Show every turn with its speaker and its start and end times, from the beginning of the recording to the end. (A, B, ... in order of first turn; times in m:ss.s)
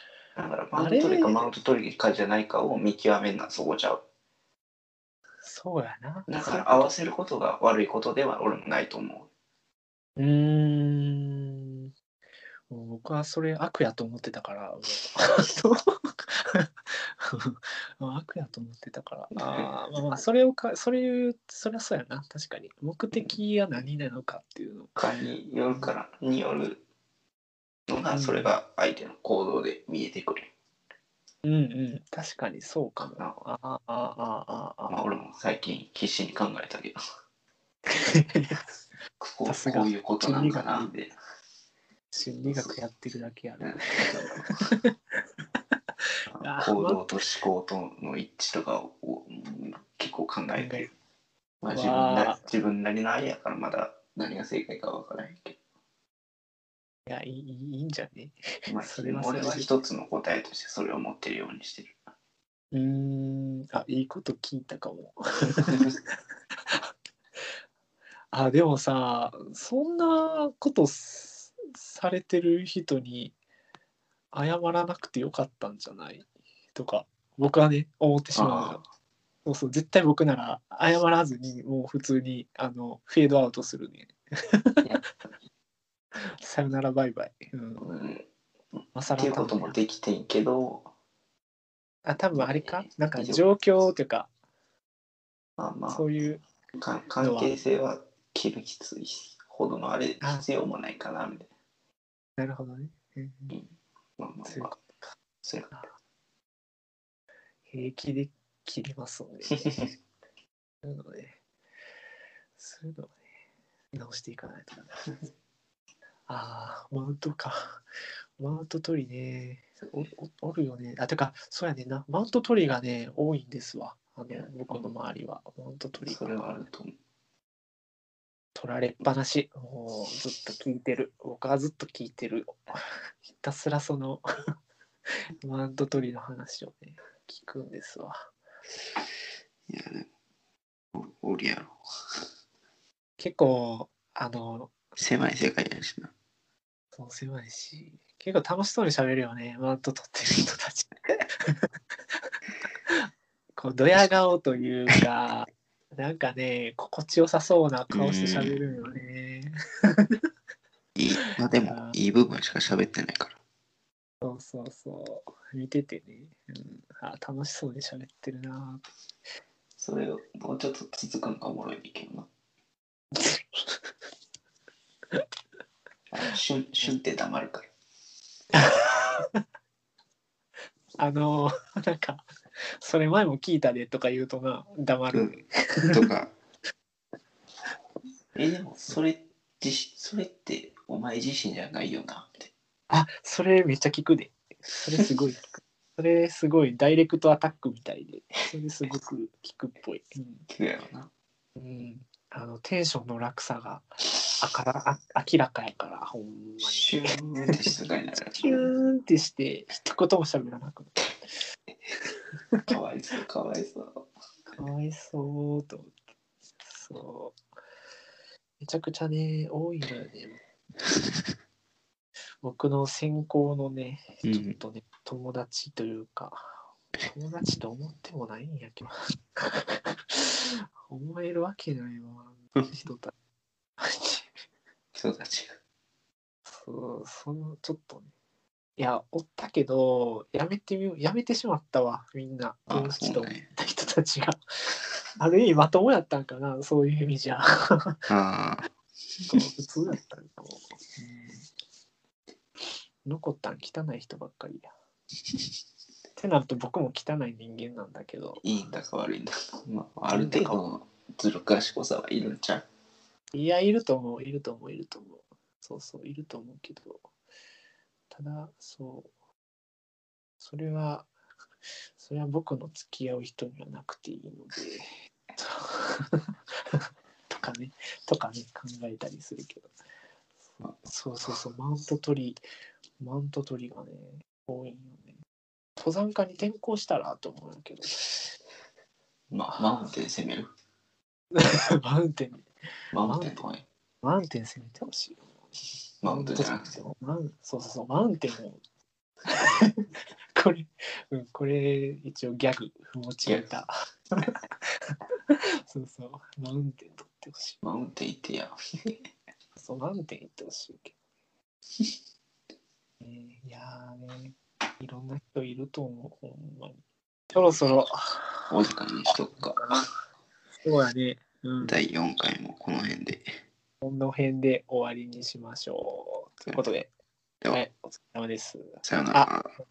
0:00.4-0:04.0 A
0:00.8-0:01.5 B
0:05.4-0:06.9 B
0:06.3-0:09.3 A
0:10.2-0:11.9 B
0:12.7-0:25.0 B
0:19.4-0:19.7 A
0:25.0-0:26.8 A
0:27.9-0:30.5 A
0:28.1-0:28.5 B
0:31.4-0:35.0 B
0:33.2-0:33.4 A
0:34.9-0:37.0 A
0:37.9-0:38.7 B
0:39.2-0:41.1 A
0:39.5-0:40.9 B
0:42.1-0:45.2 B
0:42.4-0:42.8 A
0:43.6-0:44.6 A
0:46.3-0:50.9 A
0:46.4-0:47.2 B
0:50.6-0:50.9 B
0:51.6-0:55.6 A
0:51.7-0:52.4 B
0:57.1-0:59.7 B
0:58.7-1:02.0 A
1:02.7-1:06.9 B
1:05.6-1:06.0 A
1:08.3-1:13.4 B
1:14.3-1:18.8 B
1:18.4-1:18.8 A
1:19.4-1:24.8 B
1:26.2-1:27.9 B
1:27.8-1:28.2 A
1:29.0-1:29.8 B
1:29.1-1:30.9 A
1:32.0-1:34.3 B
1:32.4-1:33.4 A
1:35.6-1:36.0 A
1:35.9-1:36.4 B
1:36.8-1:41.5 A
1:37.2-1:37.5 B
1:42.4-1:43.6 B
1:44.2-1:44.8 A
1:44.4-1:44.9 B
1:45.4-1:45.8 A
1:47.7-1:49.8 B
1:50.8-1:51.4 B
1:52.6-1:53.2 B
1:53.9-1:55.0 B
1:56.3-1:57.8 B
1:58.4-2:06.6 B
2:04.3-2:04.9 A
2:06.0-2:07.0 A
2:08.6-2:12.8 B
2:13.3-2:14.2 B
2:15.4-2:18.2 B
2:19.7-2:20.1 A
2:20.9-2:21.8 A
2:23.2-2:24.7 B
2:25.0-2:26.1 A
2:26.9-2:31.7 B
2:32.9-2:40.2 B
2:37.9-2:38.6 A
2:41.0-2:43.4 A
2:41.2-2:42.0 B
2:44.2-2:48.8 B
2:49.8-2:52.3 A
2:53.1-2:53.9 B
2:56.1-2:57.7 A
2:58.5-2:59.4 B
3:01.0-3:02.3 B
3:02.8-3:06.0 B
3:05.1-3:05.4 A
3:05.9-3:06.3 A
3:08.4-3:12.5 A
3:12.9-3:20.5 B
3:20.5-3:21.1 A
3:21.6-3:23.9 B
3:24.4-3:31.0 B
3:26.6-3:28.7 A
3:32.7-3:34.1 A
3:34.6-3:35.9 B
3:36.6-3:37.4 B
3:38.6-3:40.4 B
3:40.9-3:41.3 A
3:42.4-3:53.1 B
3:44.2-3:44.6 A
3:53.8-3:54.3 B
3:54.9-3:55.6 A
3:56.5-3:58.1 B
3:58.8-4:08.1 B
4:02.7-4:03.5 A
4:08.1-4:08.7 A
4:09.3-4:11.5 B
4:13.0-4:14.7 B
4:16.2-4:18.4 B
4:18.4-4:22.6 A
4:20.1-4:20.6 B
4:23.3-4:27.0 B
4:28.1-4:29.1 B
4:30.4-4:31.1 B
4:32.0-4:39.7 B
4:40.6-4:42.4 B
4:43.0-4:45.2 B
4:45.8-4:48.3 B
4:49.3-4:50.5 A
4:51.3-4:52.5 B
4:52.9-4:53.6 A
4:53.0-4:53.5 B
4:54.0-4:55.3 B
4:56.0-4:56.7 A
4:56.0-4:58.6 B
4:59.3-5:07.6 B
5:07.6-5:09.0 A
5:09.6-5:11.0 B
5:13.0-5:16.8 B
5:17.3-5:18.6 B
5:18.5-5:19.6 A
5:20.6-5:21.8 B
5:21.6-5:23.4 A
5:23.8-5:26.9 B
5:27.5-5:29.3 B
5:28.8-5:29.5 A